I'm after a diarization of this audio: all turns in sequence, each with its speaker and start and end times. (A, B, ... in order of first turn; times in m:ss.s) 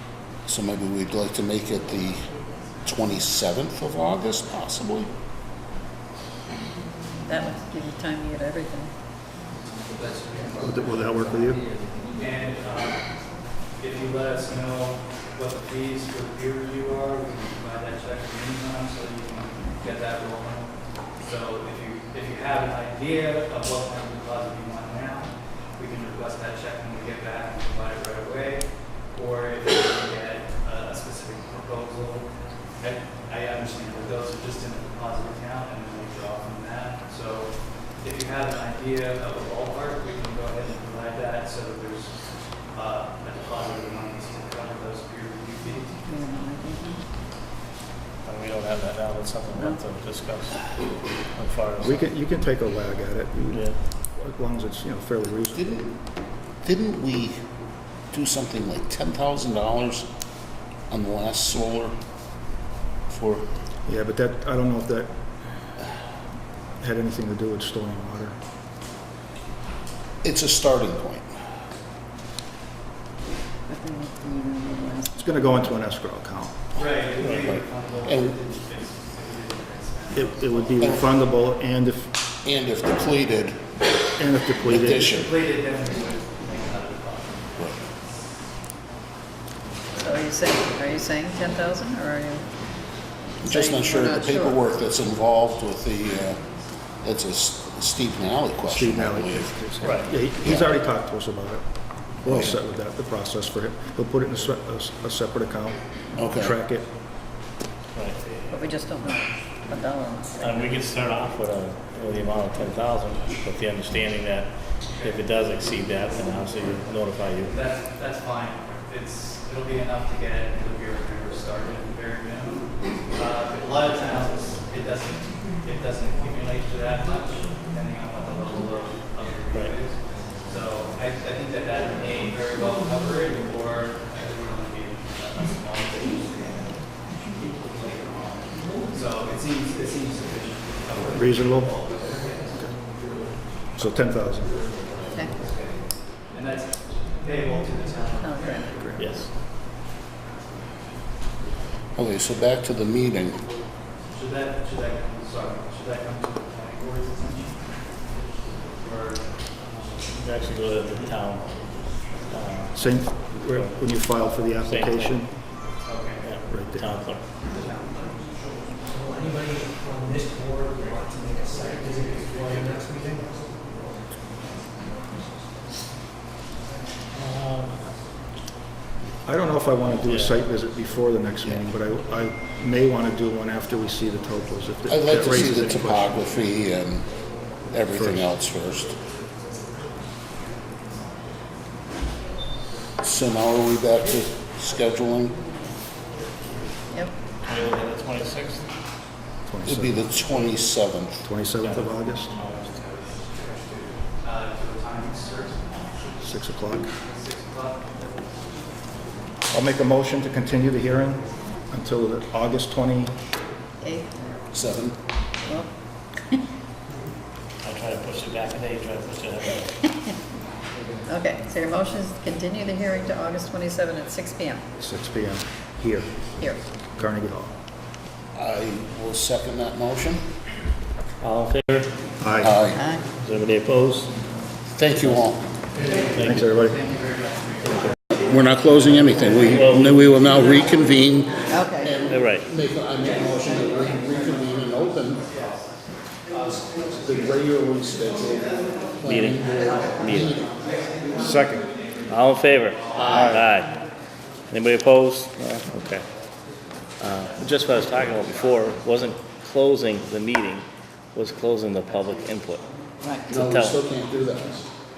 0:00.4-0:05.1 A
0:07.2-0:08.9 B
0:10.1-0:10.5 C
0:10.6-0:11.6 D
0:12.1-0:46.0 C
0:46.0-0:47.0 B
0:48.2-0:52.1 E
0:49.5-0:49.8 B
0:51.8-0:55.8 D
0:53.5-0:53.8 E
0:55.5-0:55.9 A
0:56.5-1:00.1 A
1:00.9-1:02.0 A
1:03.1-1:03.4 A
1:03.8-1:05.2 D
1:06.8-1:08.4 D
1:10.2-1:11.3 A
1:13.7-1:15.6 B
1:15.1-1:16.6 D
1:16.7-1:20.9 C
1:18.0-1:18.4 A
1:20.1-1:22.1 D
1:20.8-1:21.0 A
1:22.4-1:23.7 A
1:24.2-1:25.1 D
1:24.6-1:25.3 A
1:25.0-1:27.8 C
1:30.0-1:32.4 B
1:33.4-1:36.4 A
1:33.4-1:34.6 B
1:37.0-1:39.5 A
1:38.7-1:46.9 D
1:39.8-1:40.1 E
1:40.4-1:40.7 A
1:42.2-1:42.6 A
1:46.2-1:46.6 A
1:47.9-1:48.3 E
1:48.5-1:50.7 B
1:50.4-1:57.5 E
1:57.4-2:17.0 C
2:17.6-2:22.4 C
2:21.0-2:21.8 D
2:23.7-2:24.7 D
2:25.4-2:29.1 C
2:28.2-2:28.9 B
2:28.9-2:29.3 E
2:32.0-2:33.4 A
2:34.1-2:37.7 C
2:38.8-2:40.0 C
2:40.2-2:41.6 E
2:42.2-2:42.8 E
2:42.7-2:45.4 D
2:44.6-2:45.3 E
2:45.7-2:46.6 C
2:46.2-2:47.3 E
2:46.5-2:46.9 D
2:47.4-2:48.4 C
2:49.1-2:53.3 F
2:57.1-2:57.8 E
2:59.2-3:06.2 D
3:00.0-3:00.4 E
3:04.9-3:09.0 A
3:07.9-3:08.2 D
3:13.0-3:15.4 A
3:17.4-3:18.7 E
3:19.4-3:20.2 D
3:19.6-3:21.2 A
3:21.2-3:22.3 D
3:21.6-3:23.0 E
3:23.2-3:23.6 C
3:24.1-3:26.0 C
3:26.2-3:26.9 D
3:27.0-3:28.3 C
3:29.5-3:33.2 D
3:33.8-3:34.4 B
3:34.5-3:35.0 A
3:35.4-3:35.7 B
3:37.6-3:39.7 E
3:39.8-3:40.1 B
3:41.0-3:44.6 B
3:44.8-3:47.5 D
3:46.4-3:46.6 B
3:48.3-3:50.2 A
3:51.2-3:51.9 E
3:52.2-3:52.6 D
3:52.4-3:52.8 A
3:52.7-3:53.1 B
3:53.1-3:54.1 E
3:54.7-3:55.4 A
3:55.0-3:55.3 E
3:55.8-3:58.0 C
3:56.1-3:56.5 E
3:56.2-3:56.8 D
3:58.2-4:05.2 A
3:59.5-4:00.0 E
4:01.5-4:02.0 B
4:02.1-4:02.4 E
4:05.3-4:05.6 C
4:06.8-4:10.5 A
4:09.0-4:09.4 E
4:10.0-4:10.4 E
4:10.6-4:11.1 C
4:11.2-4:11.7 D
4:12.1-4:13.8 E
4:12.9-4:13.3 C
4:12.9-4:13.3 A
4:13.1-4:13.4 D
4:14.5-4:16.1 E
4:17.0-4:22.7 E
4:23.0-4:23.4 B
4:23.3-4:24.6 A
4:23.4-4:23.8 E